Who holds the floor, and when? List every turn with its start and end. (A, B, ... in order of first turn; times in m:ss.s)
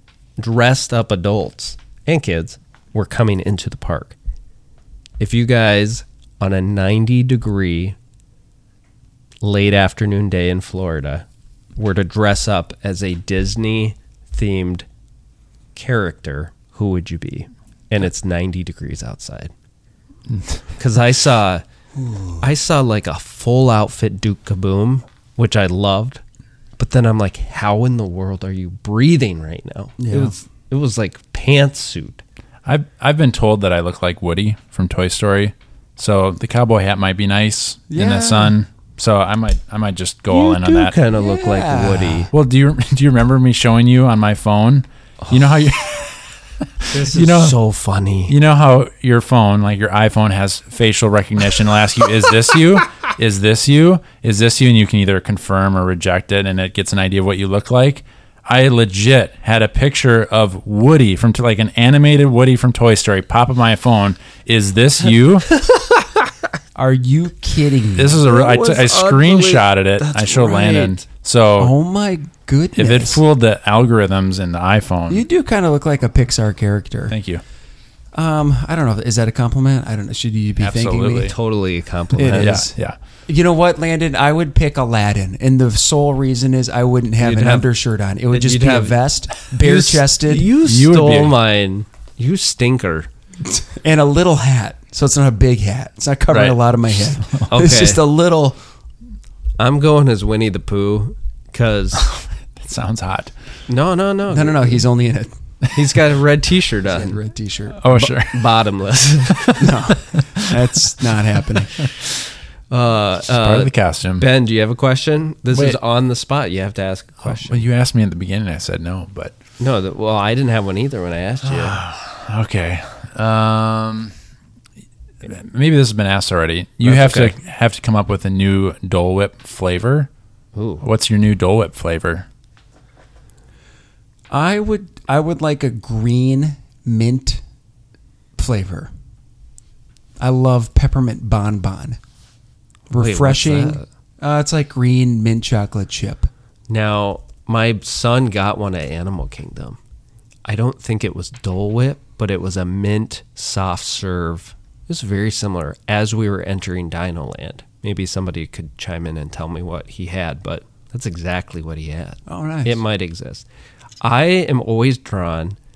0:00.4-0:04.2 A
0:05.2-0:08.0 A
0:09.4-0:14.8 A
0:15.7-0:19.5 A
0:20.8-0:21.6 A
0:22.0-0:22.3 B
0:22.4-0:26.2 A
0:26.8-0:32.2 A
0:30.0-0:30.3 B
0:32.6-0:40.9 C
0:37.9-0:38.5 B
0:40.3-0:42.3 A
0:41.2-0:42.3 B
0:42.3-0:47.6 C
0:46.9-0:48.3 A
0:48.3-1:05.6 C
1:06.8-1:08.2 B
1:08.0-1:11.7 C
1:08.2-1:11.0 A
1:11.6-1:13.2 B
1:12.8-1:15.2 C
1:15.1-1:17.1 B
1:17.1-1:17.4 C
1:18.1-1:21.3 B
1:20.6-1:21.3 C
1:21.2-1:22.6 A
1:22.1-1:22.7 B
1:22.4-1:23.0 C
1:23.3-1:30.5 B
1:27.2-1:27.6 A
1:28.3-1:29.0 A
1:29.5-1:33.1 A
1:30.6-1:31.4 C
1:33.4-1:38.6 B
1:36.3-1:37.5 C
1:37.5-1:38.0 A
1:39.6-1:42.0 A
1:42.0-1:43.3 C
1:43.7-1:44.8 A
1:44.3-1:45.3 B
1:45.7-1:47.2 A
1:46.9-1:48.1 B
1:47.8-1:48.5 C
1:48.0-1:49.6 A
1:49.3-1:50.7 C
1:49.6-1:51.7 B
1:52.7-1:57.6 A
1:53.3-1:54.2 C
1:55.5-1:55.8 C
1:57.2-1:59.3 C
1:59.6-2:01.8 A
2:01.4-2:04.1 C
2:05.2-2:10.1 C
2:06.8-2:07.3 A
2:10.5-2:10.8 A
2:10.8-2:12.3 C
2:14.3-2:17.4 B
2:18.4-2:18.9 B
2:20.2-2:22.0 B
2:22.9-2:26.3 B
2:22.9-2:23.8 A
2:26.7-2:29.8 A
2:30.4-2:43.4 A
2:42.3-2:42.8 B
2:44.0-2:45.6 A